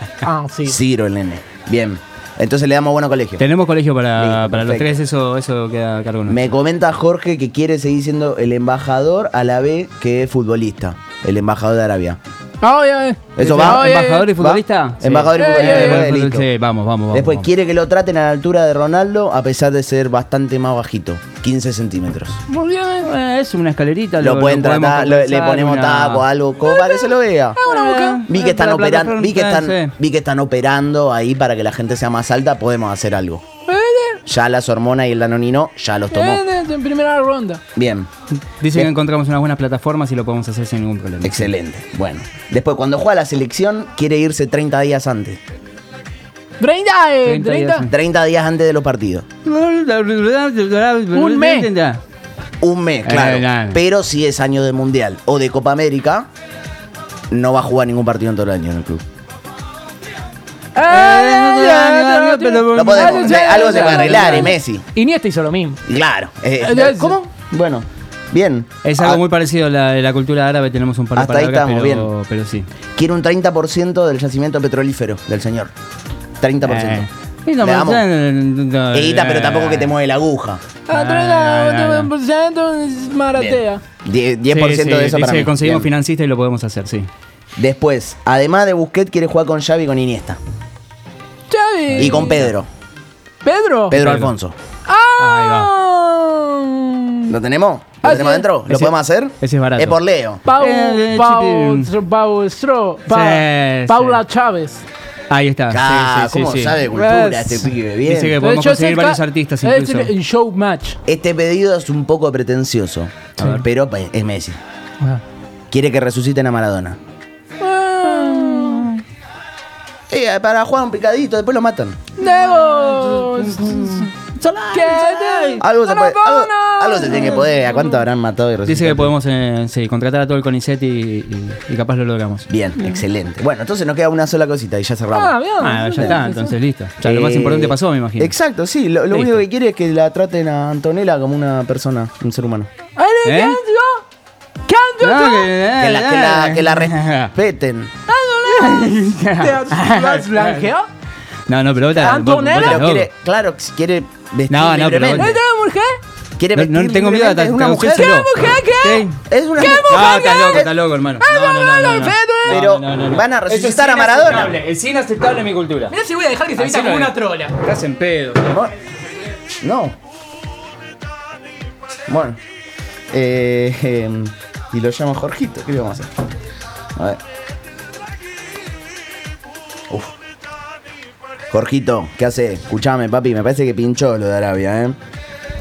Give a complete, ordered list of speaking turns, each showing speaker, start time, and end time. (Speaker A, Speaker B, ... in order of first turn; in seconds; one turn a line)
Speaker A: 0.2-0.8
Speaker B: 0.7-3.4
Speaker C: 3.4-6.5
Speaker B: 4.2-5.0
Speaker B: 6.3-12.2
Speaker A: 12.6-14.3
Speaker B: 13.4-16.5
Speaker C: 13.4-17.5
Speaker A: 15.4-16.1
Speaker B: 17.1-22.4
Speaker A: 22.5-23.1
Speaker C: 23.0-26.2
Speaker B: 24.2-27.6
Speaker A: 26.6-28.4
Speaker C: 27.6-29.9
Speaker B: 28.3-33.5
Speaker A: 33.7-34.2
Speaker B: 34.3-36.4
Speaker A: 36.1-37.6
Speaker B: 37.8-38.1
Speaker C: 38.5-41.5
Speaker B: 41.2-45.4
Speaker A: 46.6-47.9
Speaker C: 47.2-47.9
Speaker B: 47.9-49.3
Speaker C: 49.4-52.0
Speaker A: 51.1-51.7
Speaker B: 52.6-56.3
Speaker C: 53.0-53.8
Speaker B: 57.3-59.0
Speaker A: 60.7-65.8
Speaker C: 60.9-64.5
Speaker B: 62.7-64.8
Speaker B: 65.9-69.2
Speaker A: 66.6-67.2
Speaker C: 68.8-72.7
Speaker B: 71.2-72.1
Speaker B: 73.0-75.7
Speaker B: 76.4-77.1
Speaker C: 76.6-79.9
Speaker B: 77.6-78.1
Speaker B: 78.9-80.6
Speaker A: 80.9-83.8
Speaker C: 80.9-82.1
Speaker B: 83.3-85.9
Speaker C: 84.5-87.1
Speaker B: 87.6-90.4
Speaker A: 91.5-92.5
Speaker C: 91.9-92.5
Speaker B: 92.0-92.7
Speaker A: 93.4-94.0
Speaker B: 93.9-94.5
Speaker C: 93.9-94.3
Speaker A: 94.9-97.3
Speaker C: 95.2-95.7
Speaker B: 97.3-100.4
Speaker A: 98.0-98.5
Speaker C: 98.7-101.9
Speaker A: 100.5-104.8
Speaker C: 103.1-104.2
Speaker C: 105.3-110.1
Speaker B: 105.7-108.4
Speaker A: 106.9-107.6
Speaker A: 108.4-111.0
Speaker B: 111.1-114.6
Speaker B: 115.7-117.0
Speaker A: 117.6-119.0
Speaker C: 118.1-119.0
Speaker B: 120.1-122.0
Speaker A: 122.2-124.1
Speaker C: 122.5-125.6
Speaker A: 124.7-128.0
Speaker B: 125.6-129.1
Speaker C: 128.7-132.5
Speaker B: 132.5-135.4
Speaker A: 135.1-136.5
Speaker C: 135.6-138.3
Speaker B: 135.9-136.2
Speaker B: 137.0-142.7
Speaker C: 139.1-139.4
Speaker A: 143.0-144.0
Speaker C: 143.2-143.6
Speaker A: 144.7-145.5
Speaker C: 145.0-147.3
Speaker B: 145.8-147.9
Speaker A: 148.1-150.9
Speaker C: 148.5-150.7
Speaker C: 151.5-153.1
Speaker A: 151.9-152.8
Speaker B: 152.0-155.4
Speaker C: 154.5-155.4
Speaker A: 155.2-156.0
Speaker B: 156.4-158.2
Speaker C: 156.5-165.9
Speaker A: 157.8-160.7
Speaker B: 159.3-160.7
Speaker A: 161.2-162.6
Speaker B: 162.5-164.6
Speaker A: 165.9-167.6
Speaker C: 166.6-168.6
Speaker B: 168.5-168.7
Speaker B: 169.6-169.9
Speaker B: 172.1-172.4
Speaker B: 173.1-176.1
Speaker B: 181.5-185.0